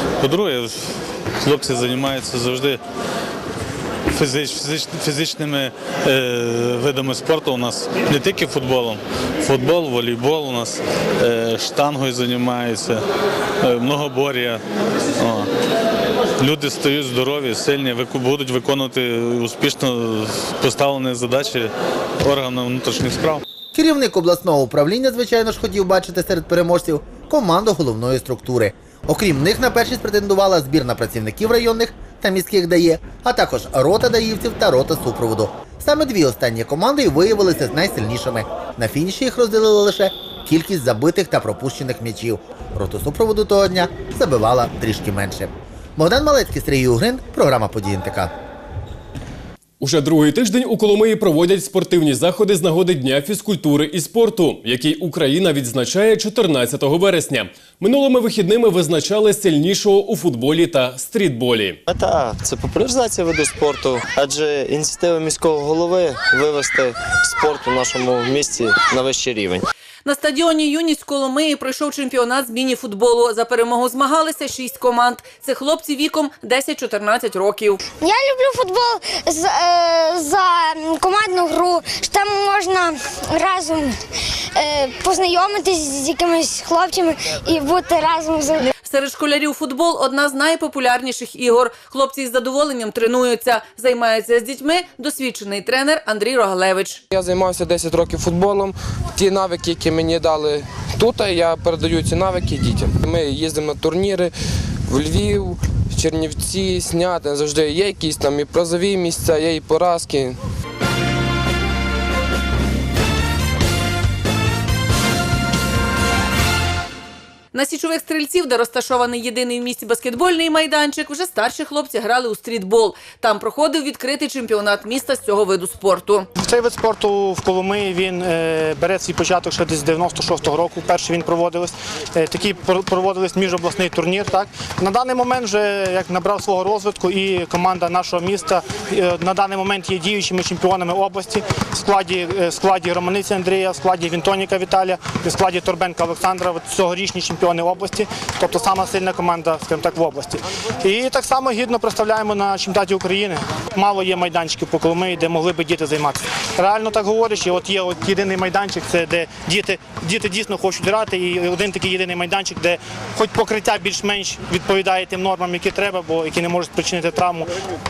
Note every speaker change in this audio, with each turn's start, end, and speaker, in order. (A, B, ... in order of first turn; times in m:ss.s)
0:00.2-0:00.9 A
0:01.4-0:02.8 A
0:04.1-0:13.0 A
0:13.6-0:14.6 A
0:15.2-0:15.5 A
0:16.4-0:23.4 A
0:23.7-0:48.3 B
0:49.8-1:01.8 C
1:02.4-1:04.1 D
1:05.3-1:06.8 D
1:07.3-1:08.9 D
1:10.0-1:17.8 E
1:18.0-1:23.8 F
1:24.6-1:28.6 F
1:28.8-1:37.0 E
1:37.1-1:44.3 G
1:44.9-1:50.4 G
1:57.5-2:06.3 E
2:06.4-2:47.5 H